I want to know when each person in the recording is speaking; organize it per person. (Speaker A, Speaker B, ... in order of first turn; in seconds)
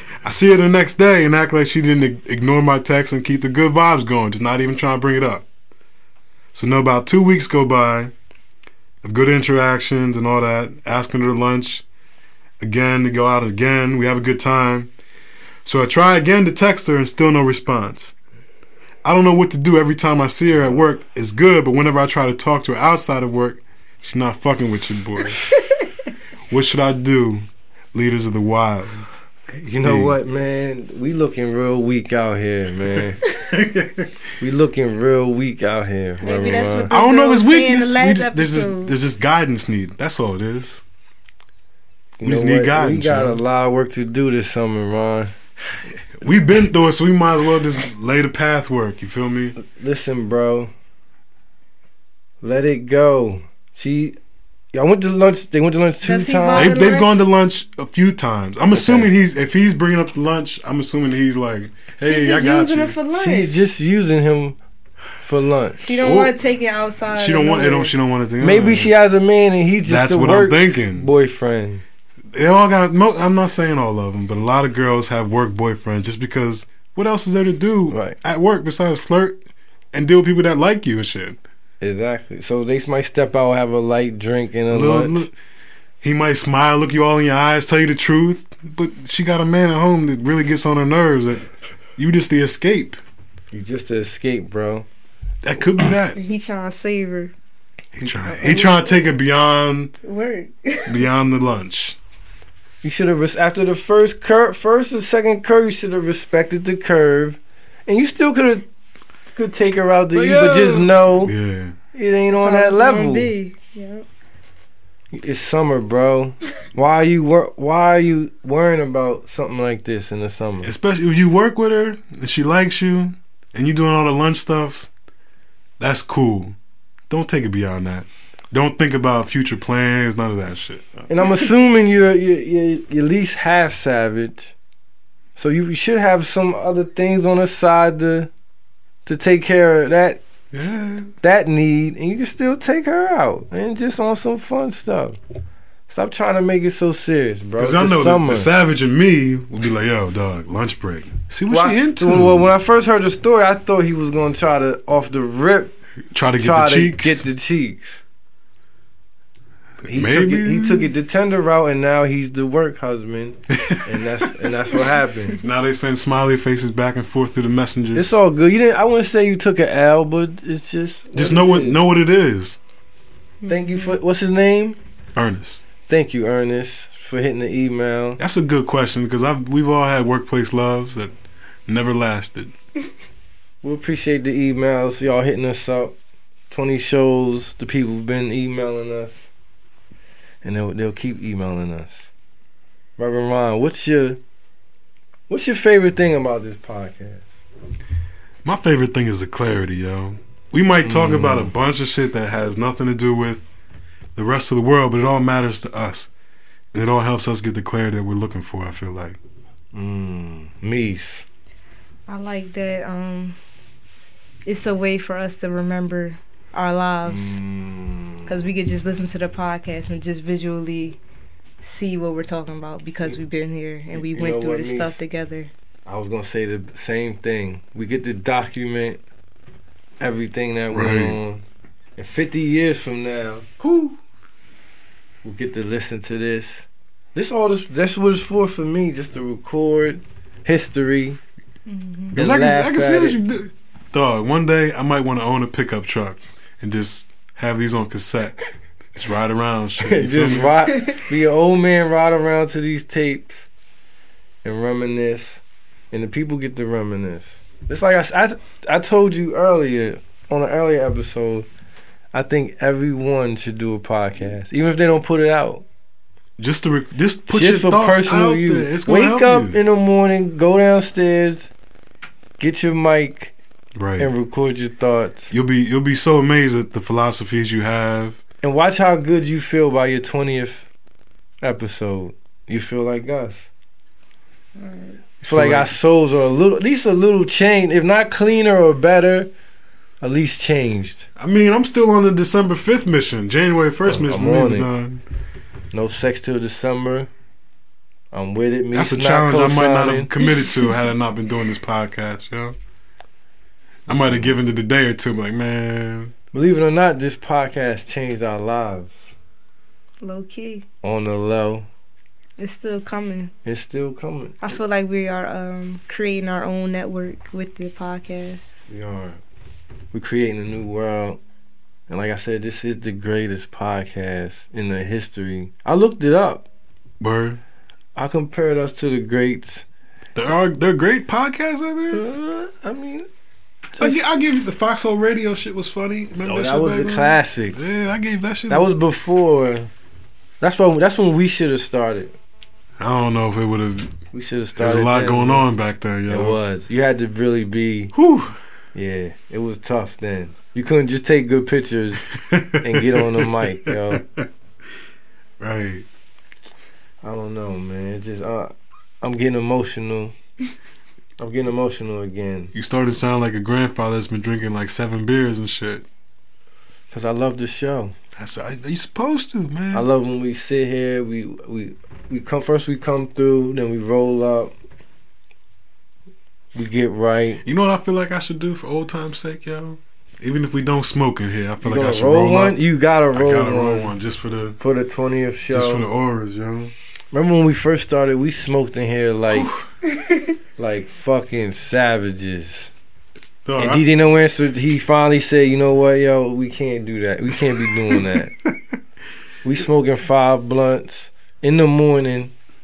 Speaker A: 0.2-5.5, 6.5-8.1, 9.0-11.8, 12.6-14.9, 15.6-18.1, 19.0-25.4, 26.5-29.1, 29.8-30.2, 32.9-34.1, 36.9-40.8, 42.2-43.4, 46.2-49.5, 56.5-63.0, 66.0-66.3, 67.1-68.9, 69.8-71.1, 72.3-79.4, 79.9-81.4, 84.7-85.3, 86.0-93.0, 95.4-96.2, 98.0-99.9, 100.8-102.0, 110.1-111.8, 120.6-124.9, 125.8-126.5, 127.1-131.1, 140.5-141.1, 147.6-152.5, 156.1-157.2, 159.8-160.9, 163.5-164.0, 165.4-168.2, 171.1-172.6, 175.2-175.6, 178.2-181.1, 181.7-182.5, 198.4-203.5, 204.1-206.1, 206.7-209.2, 230.7-231.2, 233.6-234.0, 242.1-248.4, 248.9-250.6, 266.4-269.6, 273.7-274.1, 275.3-278.2, 285.2-285.7, 291.2-295.0, 298.7-302.6, 303.9-306.1, 327.0-327.4, 330.1-332.0, 333.8-338.7, 342.8-343.9, 344.6-346.4, 347.9-348.4, 352.1-354.2, 355.4-355.9, 362.5-365.8, 368.1-369.9, 377.4-384.6, 385.5-386.7, 389.3-389.7, 393.4-393.9, 397.4-398.6
Speaker B: 29.5-33.2, 34.4-36.9, 42.2-45.3, 49.6-50.7, 52.4-54.1, 54.7-56.8, 58.7-59.1, 63.1-64.6, 65.2-65.9, 68.4-71.8, 77.9-78.2, 81.8-85.3, 93.5-94.8, 102.8-108.7, 109.3-111.3, 111.9-113.3, 115.1-120.7, 131.1-134.5, 135.3-138.3, 139.0-140.2, 141.2-145.2, 145.9-148.5, 151.5-155.8, 156.4-158.0, 159.9-165.4, 167.9-171.8, 173.5-174.8, 175.9-178.2, 183.6-185.9, 186.5-189.3, 190.4-192.1, 193.0-194.2, 195.3-197.3, 200.8-201.5, 209.7-211.2, 217.1-218.4, 223.9-225.0, 225.8-229.0, 230.0-231.4, 232.0-233.5, 235.2-241.2, 242.1-243.2, 249.8-253.5, 254.4-261.5, 262.1-265.6, 267.3-271.5, 272.4-273.3, 274.0-275.3, 278.4-280.7, 281.4-283.5, 285.2-289.3, 290.0-291.1, 293.9-294.7, 295.7-297.1, 298.1-300.1, 306.3-309.0, 310.8-311.7, 313.4-314.4, 318.7-319.2, 319.9-321.2, 321.9-326.4, 327.9-329.6, 331.9-333.1, 333.7-334.0, 336.2-337.6, 338.5-339.7, 340.4-342.1, 344.1-345.5, 346.1-347.9, 348.7-352.1, 352.6-354.0, 357.0-360.1, 361.2-362.5, 366.9-367.9, 369.7-374.5, 376.5-377.4, 381.6-383.9, 384.6-385.9, 387.1-389.5, 390.6-392.7, 393.6-398.3, 399.4-402.3
Speaker C: 36.2-38.9, 56.0-57.1, 62.0-63.7, 65.8-67.9, 96.1-97.3, 98.3-99.0, 100.0-101.0, 112.3-114.0, 173.4-174.0, 212.1-213.4, 214.4-217.4, 218.2-221.0, 221.6-225.5, 241.7-242.1, 284.6-285.0, 310.0-310.6, 312.4-313.3, 314.4-318.5, 390.0-390.2